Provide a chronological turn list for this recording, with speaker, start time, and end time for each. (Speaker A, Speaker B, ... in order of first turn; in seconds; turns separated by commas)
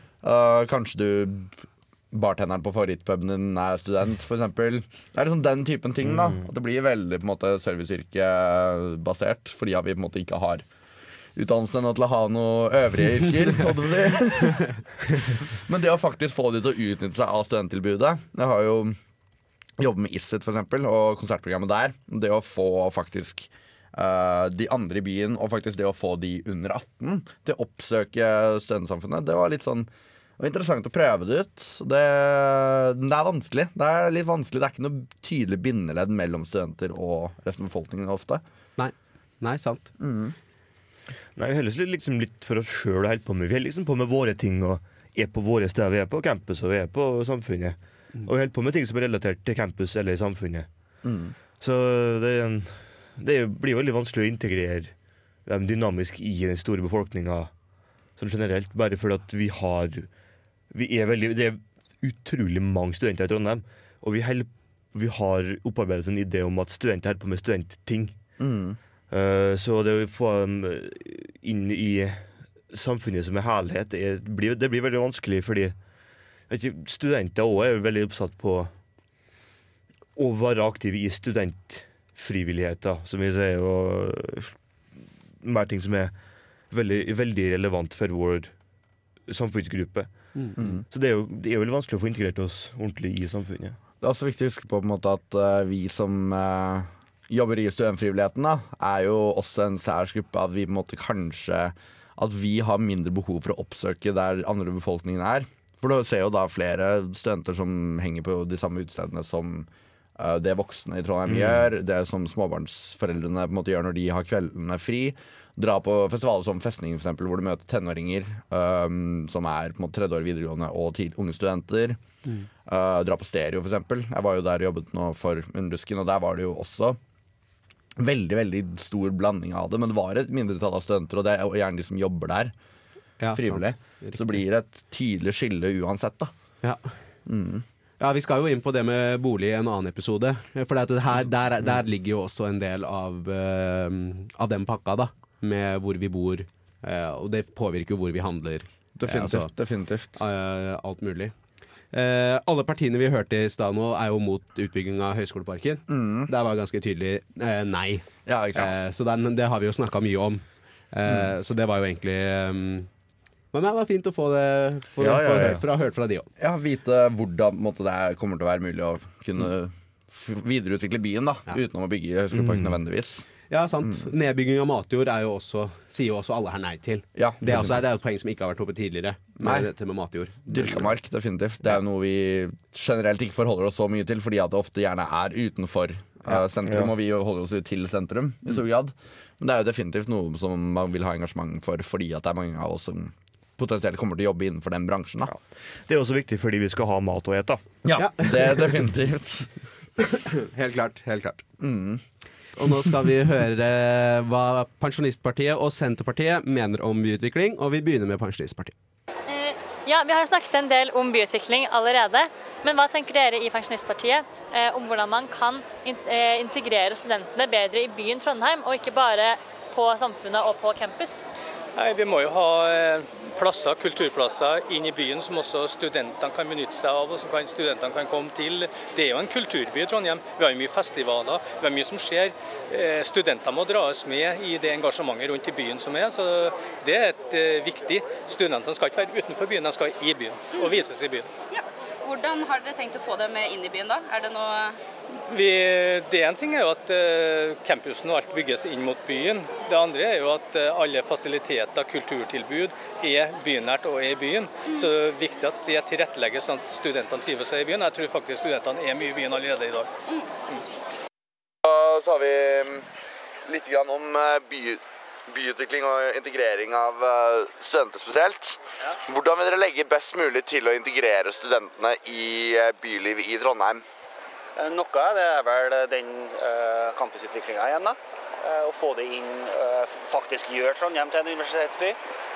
Speaker A: 0.2-10.7, Speaker A: 11.3-19.0, Speaker A: 19.8-38.4, Speaker B: 38.8-39.9, Speaker A: 40.0-40.3, Speaker C: 41.3-50.7, Speaker A: 51.0-51.3, Speaker C: 51.6-57.5, Speaker C: 58.1-60.2, Speaker C: 60.7-68.2, Speaker A: 68.4-68.8, Speaker C: 69.1-75.8, Speaker C: 76.5-78.7, Speaker C: 80.1-88.5, Speaker C: 89.3-93.8, Speaker A: 90.6-90.8, Speaker A: 94.0-122.0, Speaker A: 122.7-127.0, Speaker A: 128.0-132.5, Speaker B: 133.2-134.4, Speaker A: 133.3-136.3, Speaker B: 136.6-136.9, Speaker A: 137.2-137.6, Speaker B: 138.0-149.5, Speaker A: 149.0-150.2, Speaker B: 150.2-151.3, Speaker B: 151.9-162.9, Speaker A: 155.9-156.3, Speaker A: 158.2-158.8, Speaker B: 163.5-166.3, Speaker C: 165.0-165.6, Speaker A: 166.4-173.2, Speaker C: 172.3-172.7, Speaker B: 173.5-180.9, Speaker A: 177.1-177.8, Speaker A: 179.4-179.7, Speaker A: 180.4-195.3, Speaker C: 195.3-197.6, Speaker A: 197.8-199.5, Speaker B: 198.0-198.7, Speaker B: 200.0-201.4, Speaker A: 201.6-202.0, Speaker B: 202.6-208.7, Speaker D: 209.3-221.2, Speaker E: 221.8-241.3, Speaker F: 240.6-240.8, Speaker F: 241.5-244.8, Speaker E: 245.3-259.9, Speaker A: 261.6-262.9, Speaker A: 263.4-273.8, Speaker G: 274.6-282.0